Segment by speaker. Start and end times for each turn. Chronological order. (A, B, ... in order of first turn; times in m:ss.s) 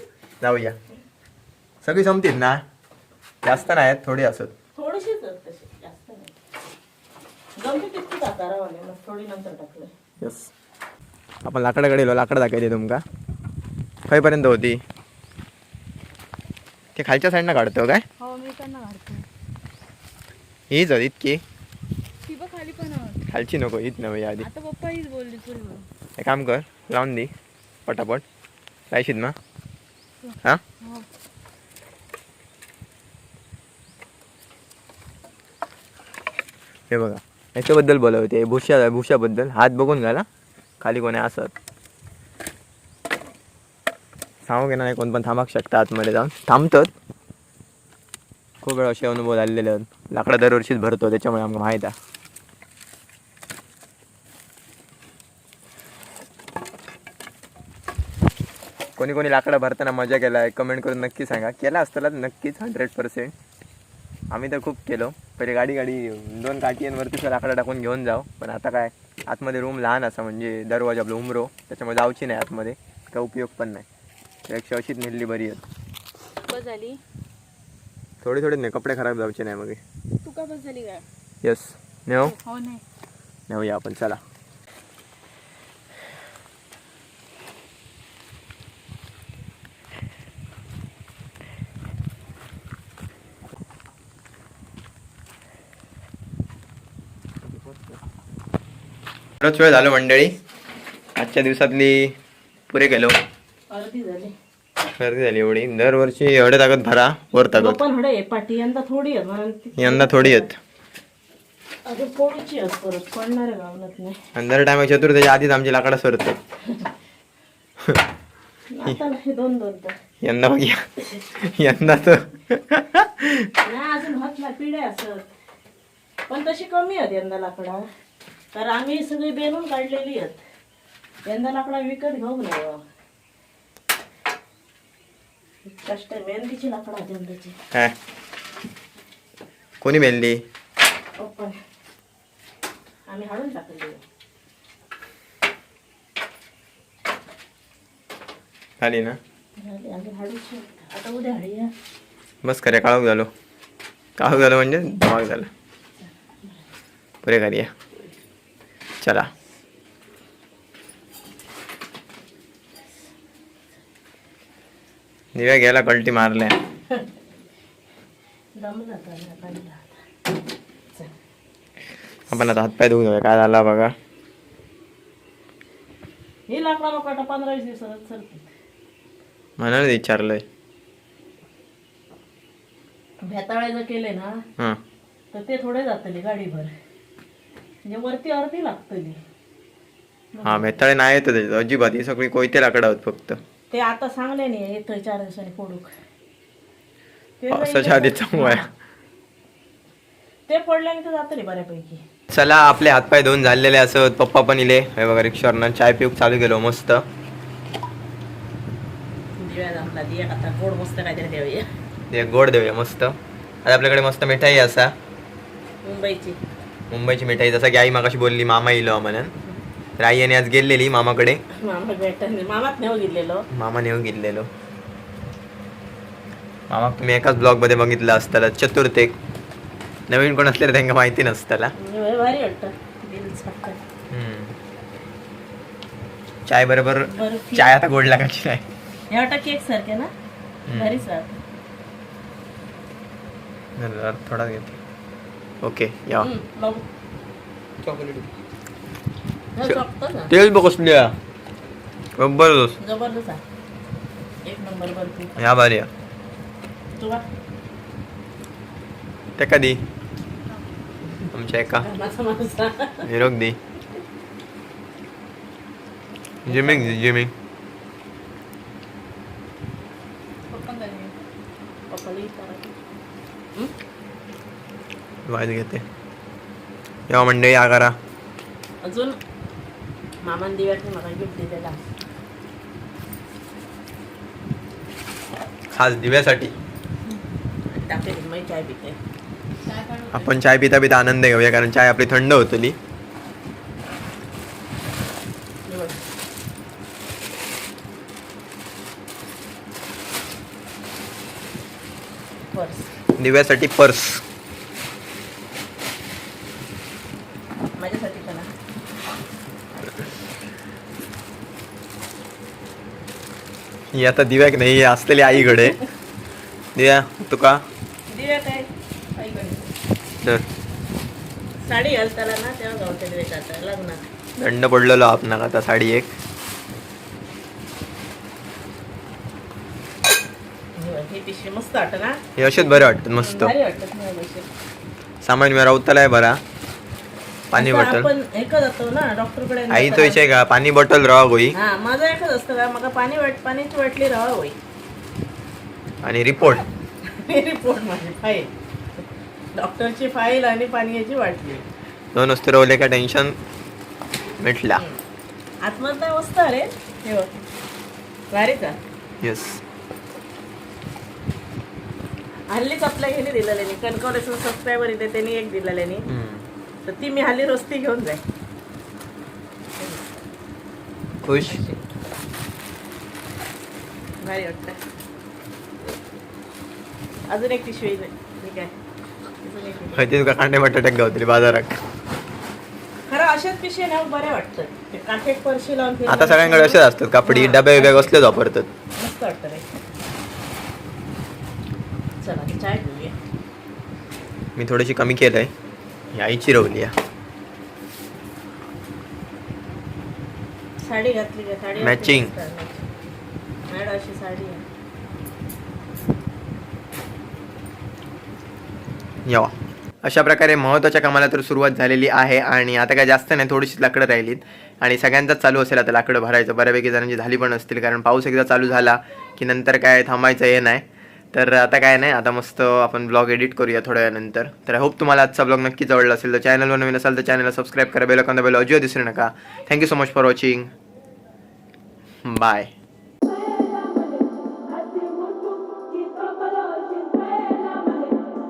0:00.4-0:00.8 A
0:01.8-0:02.6 A
0:03.4-0:04.5 A
0:04.8-0:06.4 B
0:07.6-0:09.9 B
0:10.2-0:10.5 A
0:11.4-0:13.0 A
0:14.1-0:14.8 A
0:17.0-0:18.0 A
0:18.2-0:19.2 B
0:20.7-0:21.4 A
0:22.2-0:23.2 C
0:23.3-0:24.5 A
0:24.5-0:25.8 C
0:26.2-0:27.3 A
0:27.9-0:28.2 A
0:28.9-0:29.4 A
0:36.9-0:40.3 A
0:40.8-0:41.5 A
0:44.5-0:46.9 A
0:48.6-0:51.9 A
0:59.0-1:03.3 A
1:04.3-1:13.9 A
1:14.5-1:15.6 A
1:16.5-1:17.0 C
1:18.2-1:19.8 A
1:20.2-1:21.0 C
1:21.4-1:22.4 A
1:22.3-1:22.8 C
1:23.5-1:24.2 A
1:37.5-1:37.8 A
1:39.4-1:40.3 A
1:41.2-1:42.1 A
1:42.7-1:43.2 A
1:43.7-1:44.3 B
1:45.0-1:47.8 A
1:47.5-1:50.5 B
1:49.8-1:50.6 A
1:51.9-1:54.2 B
1:54.4-1:56.4 A
1:58.8-2:00.0 B
2:00.2-2:03.5 A
2:03.6-2:05.3 B
2:06.3-2:07.8 B
2:08.5-2:10.4 B
2:11.3-2:12.8 B
2:15.7-2:17.6 B
2:19.8-2:20.4 A
2:21.2-2:21.6 B
2:23.1-2:24.0 B
2:28.8-2:29.2 A
2:29.6-2:31.7 B
2:32.4-2:33.3 A
2:34.2-2:35.5 A
2:36.0-2:36.6 B
2:37.2-2:37.7 A
2:39.0-2:39.3 A
2:45.4-2:46.6 A
2:48.6-2:50.0 B
2:52.3-2:53.9 A
2:56.5-2:58.5 B
2:59.6-3:00.4 A
3:03.2-3:04.3 B
3:05.3-3:06.7 B
3:07.9-3:09.2 B
3:10.3-3:10.8 B
3:10.4-3:13.4 A
3:13.7-3:15.9 B
3:17.4-3:18.7 B
3:17.5-3:18.7 A
3:20.5-3:22.0 B
3:22.3-3:27.0 A
3:29.4-3:31.7 B
3:32.1-3:34.9 A
3:35.8-3:36.4 B
3:36.9-3:39.3 A
3:40.0-3:41.4 A
3:41.6-3:43.4 B
3:43.5-3:44.5 A
3:46.7-3:49.2 A
3:50.1-3:51.7 A
3:51.8-3:53.8 B
3:54.1-3:54.5 A
3:56.5-3:58.6 A
3:57.1-3:57.8 B
3:59.1-4:00.1 B
4:00.7-4:01.0 A
4:00.7-4:01.3 B
4:03.8-4:04.8 A
4:05.6-4:06.3 A
4:06.2-4:06.8 B
4:07.8-4:08.3 A
4:09.6-4:10.3 B
4:09.6-4:11.2 A
4:12.2-4:12.8 A
4:12.8-4:13.4 B
4:14.5-4:15.4 B
4:15.4-4:15.9 A
4:17.0-4:17.2 B
4:19.4-4:19.8 A
4:21.2-4:23.1 B
4:21.3-4:21.9 A
4:23.0-4:23.6 A
4:26.5-4:27.3 A
4:26.5-4:27.0 B
4:30.5-4:31.1 B
4:31.9-4:32.7 B
4:35.3-4:35.8 A
4:37.1-4:38.0 A
4:38.8-4:39.2 B
4:40.2-4:41.8 B
4:45.7-4:46.5 A
4:47.1-4:49.0 B
4:49.7-4:50.3 B
4:50.1-4:52.8 A
4:55.7-4:56.0 B
5:02.5-5:02.9 B
5:03.2-5:04.2 A
5:07.8-5:08.5 B
5:13.9-5:15.8 A
5:16.8-5:17.6 A
5:18.1-5:18.7 B
5:19.2-5:19.7 C
5:21.7-5:24.0 B
5:24.4-5:26.1 A
5:30.8-5:34.5 B
5:32.4-5:33.5 A
5:35.2-5:36.4 A
5:37.5-5:38.1 A
5:37.5-5:40.2 B
5:39.7-5:41.6 A
5:41.5-5:44.6 B
5:46.0-5:46.6 A
5:47.0-5:48.5 B
5:49.6-5:51.7 B
5:52.2-5:53.4 A
5:54.4-5:54.8 A
5:54.7-5:55.0 B
5:55.6-5:57.3 B
5:58.3-5:58.8 B
5:59.2-5:59.6 A
6:02.5-6:06.0 B
6:06.1-6:06.4 A
6:06.9-6:08.2 B
6:11.2-6:11.6 A
6:11.4-6:11.8 B
6:14.2-6:14.8 B
6:17.3-6:18.7 B
6:19.4-6:20.0 B
6:19.9-6:21.8 A
6:23.1-6:28.2 B
6:26.1-6:28.7 A
6:29.0-6:29.6 B
6:32.2-6:33.1 B
6:34.6-6:35.5 A
6:36.1-6:36.9 A
6:40.9-6:42.8 B
6:41.8-6:42.3 A
6:43.7-6:44.6 B
6:49.3-6:49.5 A
6:50.0-7:10.7 A
7:12.2-7:12.7 A
7:14.9-7:18.1 C